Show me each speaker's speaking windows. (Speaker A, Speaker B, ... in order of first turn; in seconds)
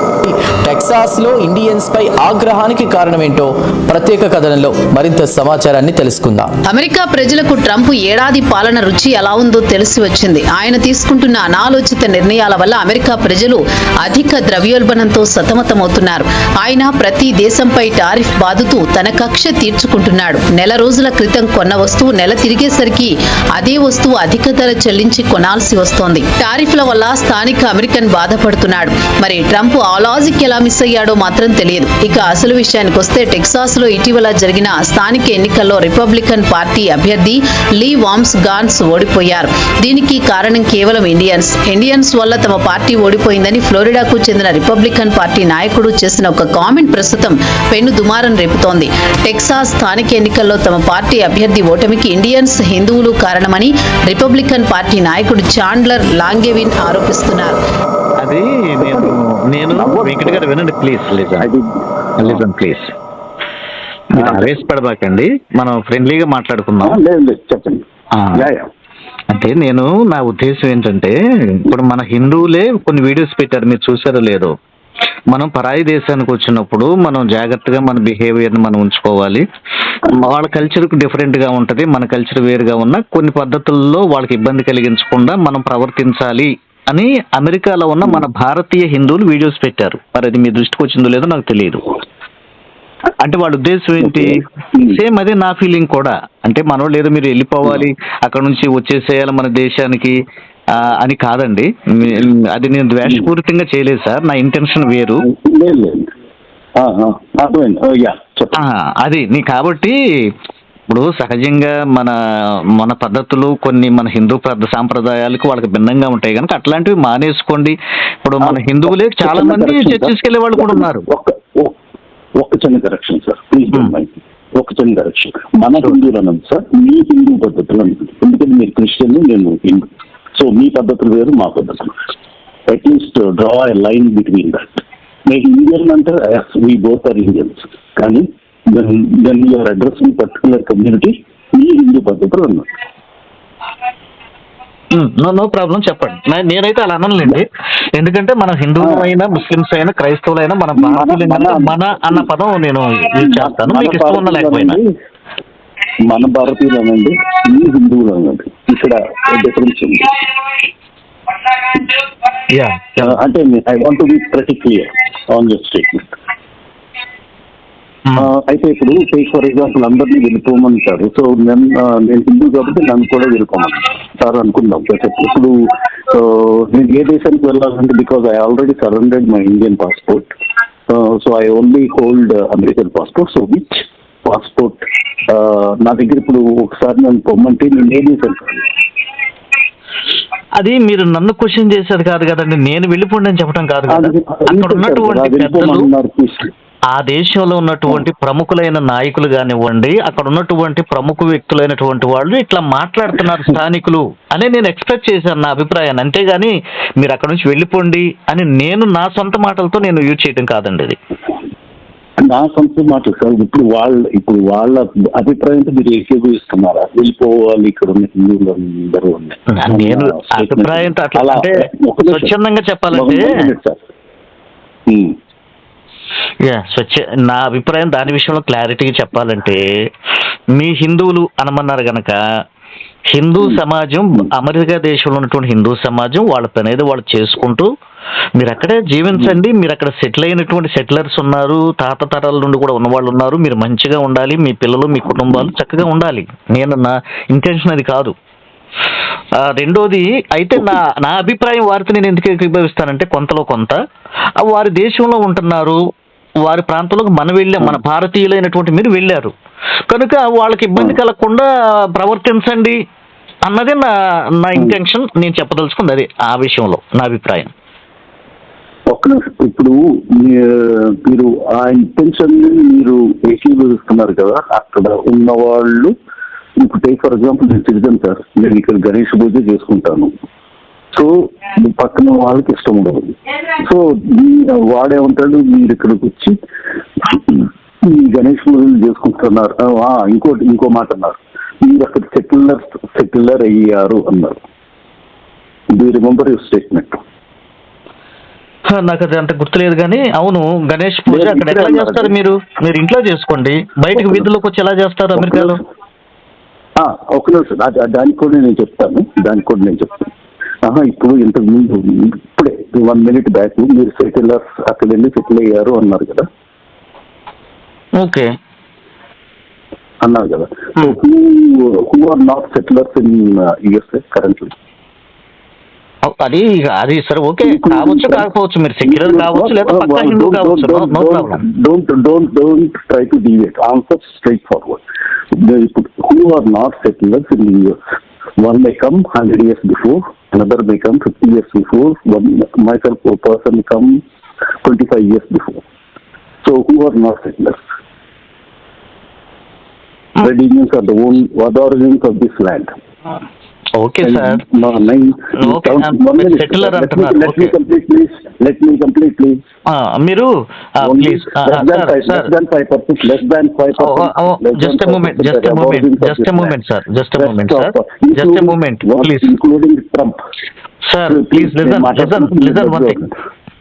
Speaker A: 0.2-6.5
Speaker B: 6.7-57.6
Speaker C: 58.2-61.5, 62.2-62.9, 64.1-67.0, 68.2-68.5, 69.3-74.5, 75.3-79.4, 80.0-91.9, 93.2-100.2, 100.7-105.2, 108.5-110.0, 110.9-121.1, 144.9-154.8, 162.5-163.2, 190.6-195.9, 196.9-211.0, 219.5-223.3, 226.4-229.6, 230.6-232.2, 233.1-237.7, 238.4-248.1, 249.4-253.8, 254.4-255.8, 256.4-259.3, 259.9-262.8, 263.4-267.5, 298.7-305.6, 318.0-318.3, 326.0-331.4, 353.8-354.4, 355.4-357.5, 359.7-362.3, 363.8-369.3, 370.9-373.0
Speaker D: 58.8-59.2, 59.7-60.5, 61.4-61.6, 64.2-64.6, 66.8-68.7, 94.0-95.0, 105.2-106.1, 106.8-108.6, 118.4-121.7, 122.4-131.9, 132.7-142.7, 148.8-149.1, 150.8-152.3, 153.1-154.9, 156.1-160.2, 163.0-166.2, 168.2-175.6, 176.1-180.3, 180.9-188.7, 193.9-196.5, 212.2-222.3, 222.9-223.8, 224.9-225.2, 268.9-275.9, 276.6-280.1, 280.9-286.4, 287.0-294.4, 295.7-297.0, 301.1-302.1, 303.9-304.3, 305.2-305.6, 306.8-310.1, 310.6-316.3, 320.0-324.5, 327.4-328.3, 328.9-334.8, 335.3-337.8, 338.4-344.0, 344.6-345.6, 346.4-347.6, 350.2-352.7, 354.0-359.4, 360.8-366.6, 367.1-370.2, 371.1-373.1